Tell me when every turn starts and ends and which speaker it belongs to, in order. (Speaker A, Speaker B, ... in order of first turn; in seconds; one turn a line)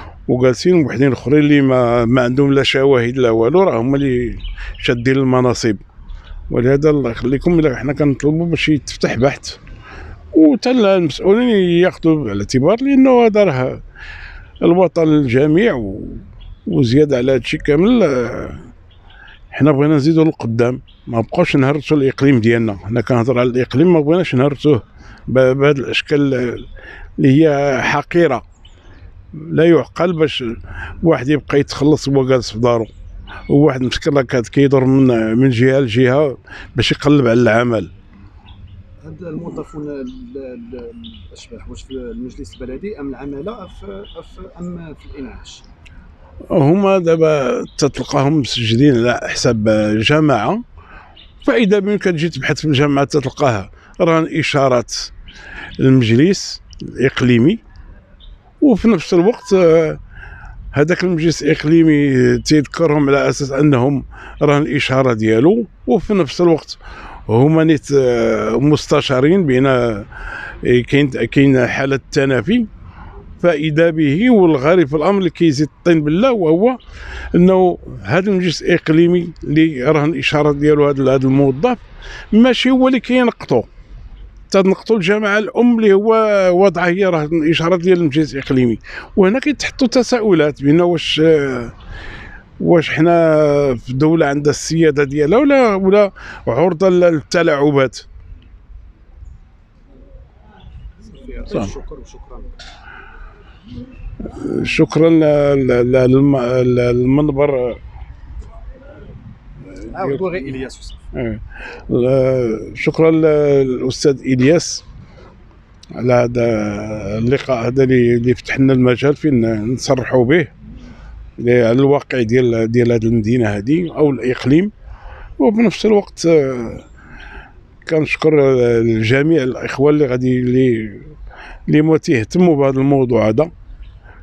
Speaker A: 0.3-5.8
Speaker A: 6.5-9.6
Speaker A: 10.3-13.8
Speaker A: 14.6-18.6
Speaker A: 19.5-28.4
Speaker A: 29.3-32.9
Speaker A: 33.5-37.9
Speaker B: 39.0-45.6
Speaker A: 46.5-50.6
Speaker A: 51.4-55.1
Speaker A: 55.8-57.6
Speaker A: 58.6-60.0
Speaker A: 60.7-72.7
Speaker A: 73.4-76.8
Speaker A: 77.3-83.7
Speaker A: 84.5-91.7
Speaker A: 92.6-98.1
Speaker B: 101.0-102.5
Speaker A: 104.3-107.8
Speaker B: 109.9-111.0
Speaker A: 111.1-114.8
Speaker A: 116.0-120.5
Speaker A: 121.4-124.7
Speaker A: 125.4-126.9
Speaker A: 127.9-131.1
Speaker A: 131.7-133.5